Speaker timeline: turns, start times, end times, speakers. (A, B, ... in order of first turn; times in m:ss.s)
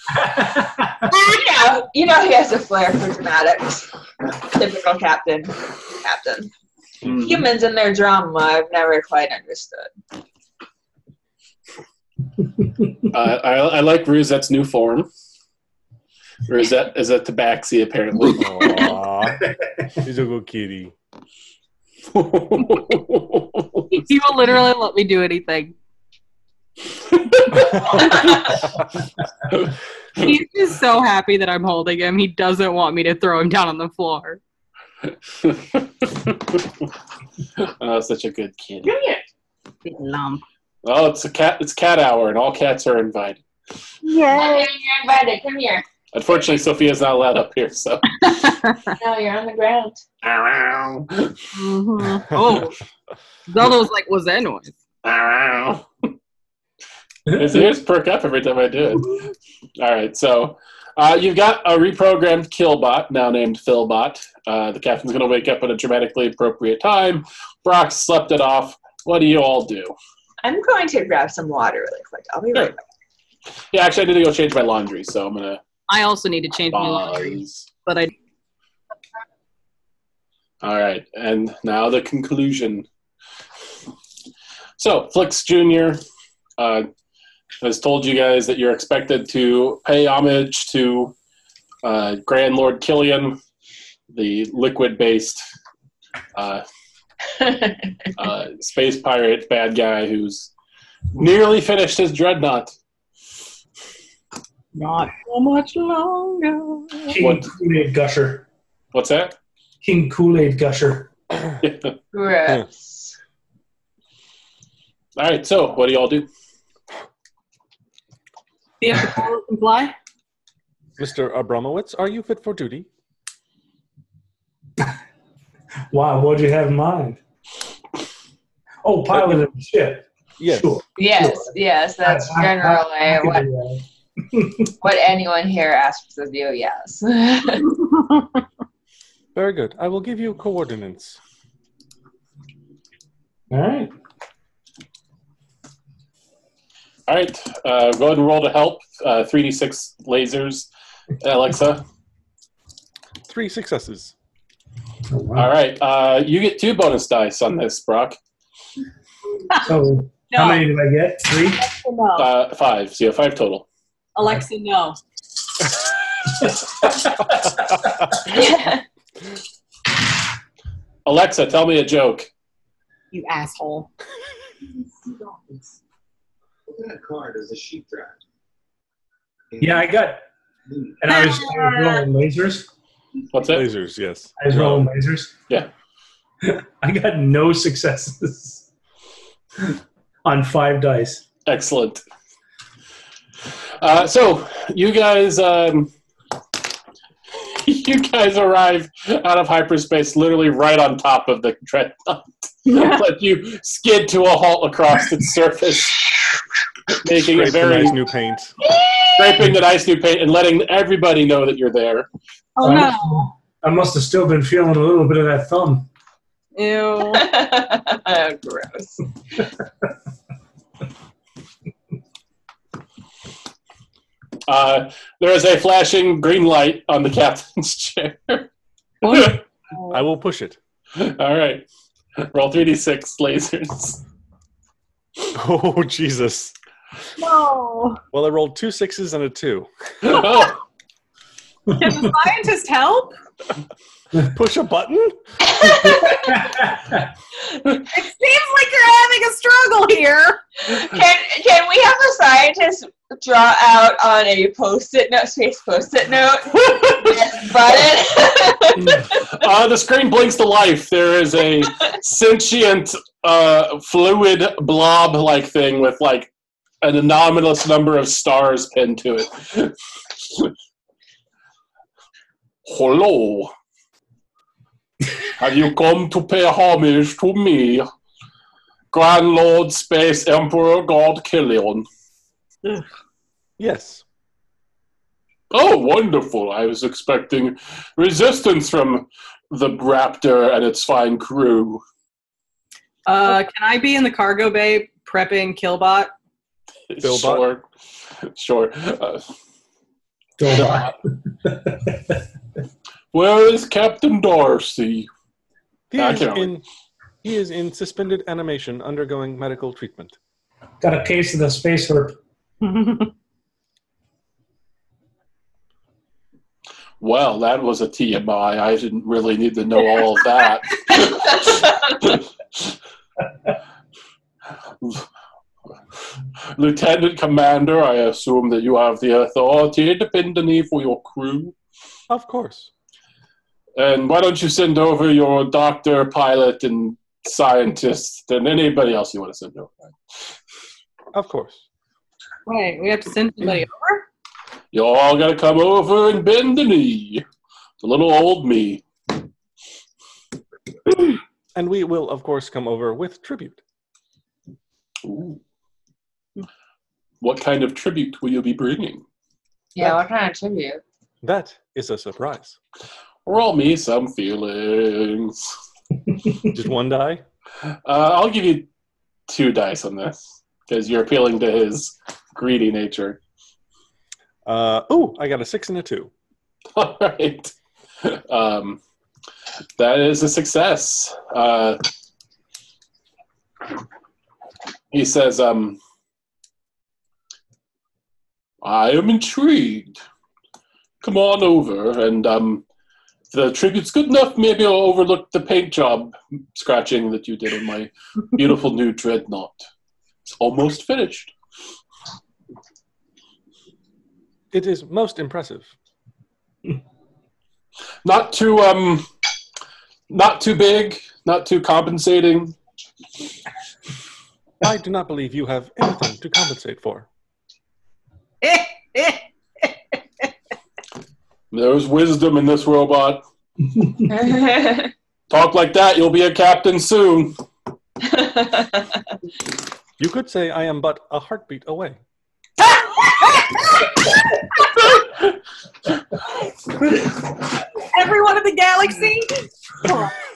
0:00.2-0:01.1 A
0:01.0-0:06.5 B
0:07.0-0:07.4 C
0:07.1-0:09.9 B
0:13.1-0:15.1 C
0:16.5-0:18.7 C
0:18.3-0:20.9 D
0:22.1-0:23.9 C
0:23.9-0:25.7 E
0:27.9-0:28.5 B
0:30.2-0:34.4 E
0:35.4-0:36.6 C
0:37.6-0:38.9 C
0:38.8-0:39.2 B
0:39.8-0:40.4 E
0:40.8-0:43.4 C
0:44.0-0:44.7 E
0:44.3-0:45.8 B
0:46.1-0:48.4 C
0:48.2-0:48.9 E
0:48.9-0:50.0 B
0:50.2-0:51.4 C
0:51.5-0:52.8 E
0:53.5-0:54.7 E
0:55.0-0:55.8 C
0:57.3-0:59.2 C
0:59.8-1:09.9 C
1:10.4-1:12.8 B
1:13.7-1:15.6 C
1:15.9-1:18.1 E
1:16.7-1:17.6 C
1:20.6-1:22.8 C
1:24.8-1:26.0 C
1:26.6-1:26.9 C
1:27.6-1:31.1 C
1:31.8-1:33.4 C
1:34.1-1:35.4 C
1:36.3-1:36.6 C
1:37.4-1:37.9 B
1:38.2-1:40.5 C
1:41.1-1:42.7 C
1:44.7-1:47.2 E
1:47.1-1:48.4 A
1:47.2-1:47.5 C
1:48.9-1:49.4 C
1:49.8-1:51.1 A
1:51.6-1:51.9 C
1:52.1-1:53.1 B
1:55.2-1:56.3 C
1:58.8-1:59.9 E
2:01.0-2:02.9 D
2:05.9-2:07.2 A
2:08.8-2:14.7 A
2:10.4-2:10.8 D
2:11.0-2:13.4 B
2:14.8-2:17.8 B
2:19.3-2:21.2 D
2:23.5-2:23.9 A
2:27.1-2:30.7 C
2:31.2-2:31.8 C
2:33.3-2:34.1 D
2:35.1-2:35.5 A
2:35.4-2:38.2 C
2:39.6-2:41.6 A
2:40.3-2:40.6 E
2:41.4-2:42.3 E
2:42.2-2:43.6 C
2:44.1-2:45.0 E
2:48.2-2:48.8 B
2:51.0-2:52.3 C
2:53.1-2:53.9 E
2:56.7-2:58.2 F
2:59.5-2:59.8 F
2:59.6-3:00.2 A
3:00.7-3:01.0 F
3:01.0-3:02.7 A
3:01.3-3:01.9 E
3:03.3-3:03.6 C
3:03.5-3:04.9 D
3:04.4-3:05.3 A
3:06.4-3:08.6 A
3:10.2-3:11.2 A
3:11.4-3:12.0 C
3:13.8-3:15.9 C
3:17.5-3:26.1 C
3:22.6-3:23.0 E
3:26.9-3:28.0 C
3:27.1-3:28.5 D
3:29.1-3:32.1 C
3:32.6-3:33.3 E
3:32.6-3:35.9 A
3:36.6-3:37.3 E
3:37.0-3:39.0 B
3:44.5-3:48.5 C
3:49.0-3:50.0 E
3:49.0-3:49.4 C
3:49.9-3:50.6 D
3:51.0-3:51.6 C
3:52.2-3:54.0 C
3:55.3-3:56.5 D
3:57.2-3:58.0 E
3:58.1-4:00.2 D
4:00.0-4:00.6 C
4:01.7-4:03.1 E
4:04.2-4:05.6 D
4:05.5-4:06.3 B
4:06.1-4:07.1 A
4:07.8-4:10.4 E
4:10.6-4:19.2 B
4:19.2-4:26.3 C
4:26.8-4:30.5 C
4:32.6-4:33.5 C
4:35.4-4:37.9 C
4:38.9-4:41.8 C
4:43.6-4:44.0 D
4:45.5-4:51.8 C
4:53.0-4:56.1 E
4:56.9-4:57.6 C
4:57.0-4:57.5 D
4:58.3-4:59.2 C
5:00.4-5:02.2 A
5:03.1-5:05.1 C
5:05.9-5:06.6 D
5:06.0-5:06.5 C
5:07.2-5:10.2 D
5:10.8-5:12.2 A
5:12.6-5:13.1 E
5:17.0-5:22.6 C
5:26.5-5:31.5 C
5:32.1-5:32.7 D
5:33.8-5:39.9 C
5:41.1-5:41.6 D
5:42.4-5:44.0 E
5:44.7-5:47.2 C
5:47.8-5:48.8 C
5:51.5-5:53.6 D
5:55.0-5:55.4 C
5:57.2-5:59.0 C
5:59.7-6:00.8 B
6:01.2-6:02.6 D
6:03.2-6:05.5 C
6:06.5-6:07.2 D
6:07.8-6:08.7 C
6:09.3-6:13.2 C
6:14.4-6:16.1 D
6:16.8-6:18.8 C
6:19.8-6:21.8 C
6:24.9-6:25.8 C
6:28.6-6:30.0 C
6:31.0-6:32.6 C
6:33.3-6:39.6 C
6:40.2-6:41.3 C
6:44.5-6:45.7 D
6:48.0-6:49.0 C
6:50.1-6:52.6 C
6:54.6-6:57.1 D
6:58.4-6:59.2 E
7:01.5-7:03.2 C
7:04.0-7:04.9 B
7:05.3-7:07.4 C
7:08.0-7:09.0 B
7:10.0-7:12.0 D
7:14.8-7:15.3 C
7:17.8-7:20.2 E